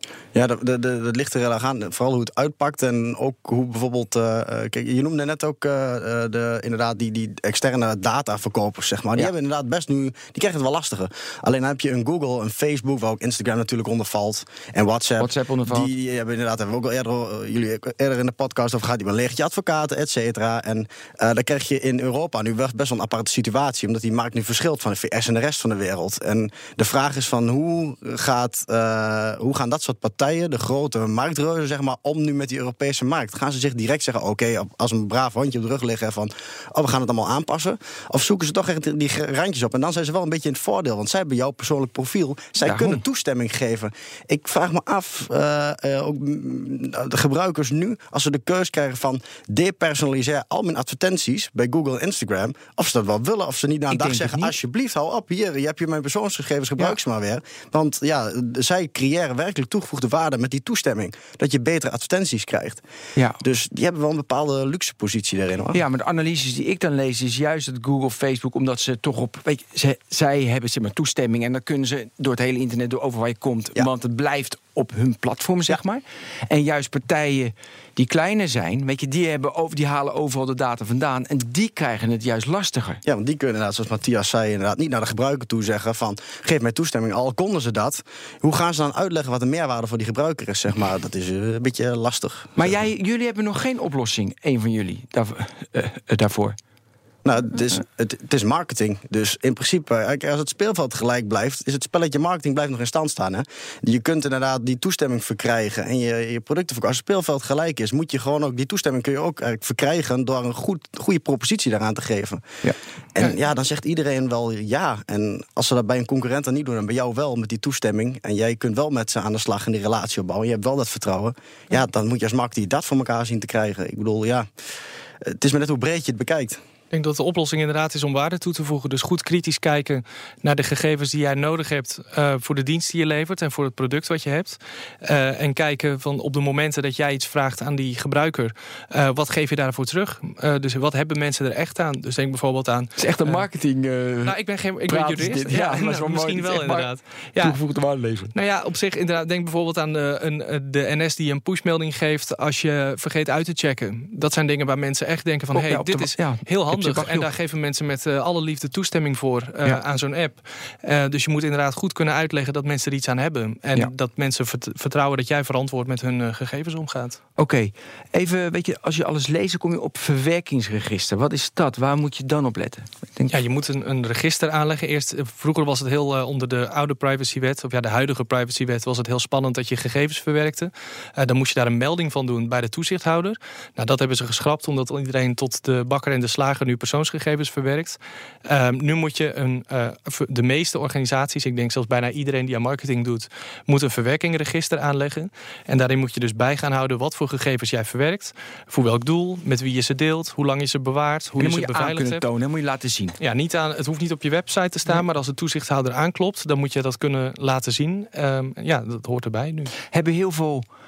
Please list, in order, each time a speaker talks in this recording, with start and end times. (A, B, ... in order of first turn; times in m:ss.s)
0:00.3-1:02.8 A
0:15.2-0:15.9 B
0:42.6-0:43.0 B
0:53.9-0:54.6 B
1:03.4-1:05.8 A
1:05.7-1:23.0 B
1:23.0-1:32.8 A
1:32.6-1:36.6 B
1:37.2-1:52.5 A
1:53.1-2:04.5 A
2:05.2-2:06.6 A
2:06.9-2:23.4 C
2:23.0-2:24.4 B
2:24.2-2:27.6 C
2:24.9-2:28.3 B
2:28.3-2:47.2 C
2:35.5-2:37.3 B
2:47.4-2:53.4 B
2:53.3-3:22.2 C
3:21.4-3:23.2 B
3:23.2-3:29.7 C
3:29.9-3:30.6 B